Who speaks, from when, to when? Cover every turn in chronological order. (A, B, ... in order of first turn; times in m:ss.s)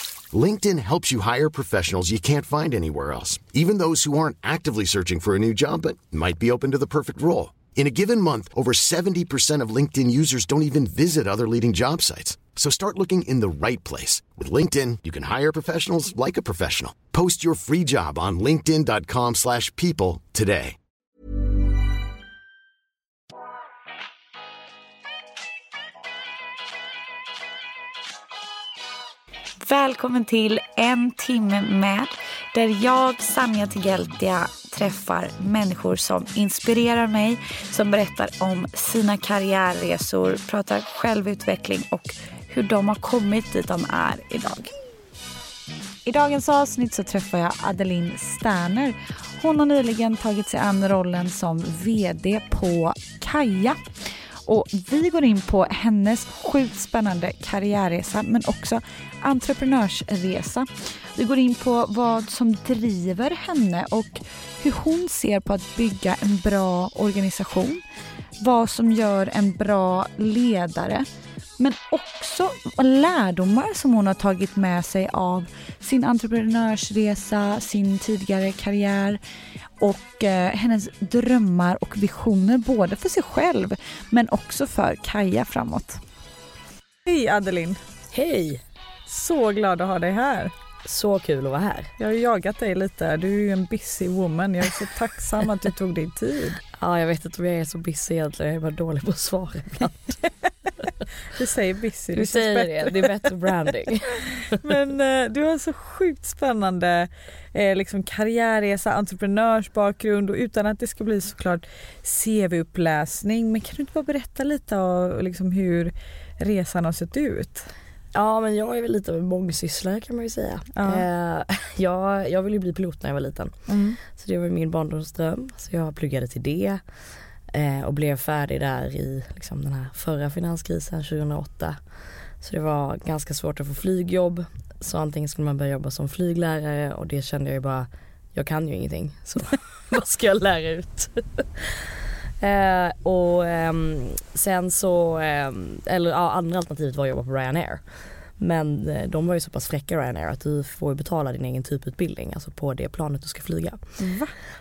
0:00.3-0:20.8 A
0:29.6-0:44.7 B
0:46.0-0:53.8 B
0:54.4-1:07.8 B
1:08.4-1:11.0 B
1:11.6-1:19.2 B
1:19.8-1:26.0 B
1:27.1-1:27.8 B
1:28.1-1:28.6 C
1:29.1-1:30.5 B
1:30.8-1:31.9 C
1:32.0-1:36.6 B
1:36.7-1:40.2 C
1:41.3-1:43.3 B
1:42.1-1:44.6 C
1:44.5-1:57.7 B
1:58.1-2:06.8 C
2:00.7-2:01.0 B
2:03.7-2:04.0 B
2:07.5-2:11.8 C
2:12.4-2:27.8 C
2:28.4-2:33.9 C
2:34.0-2:34.3 B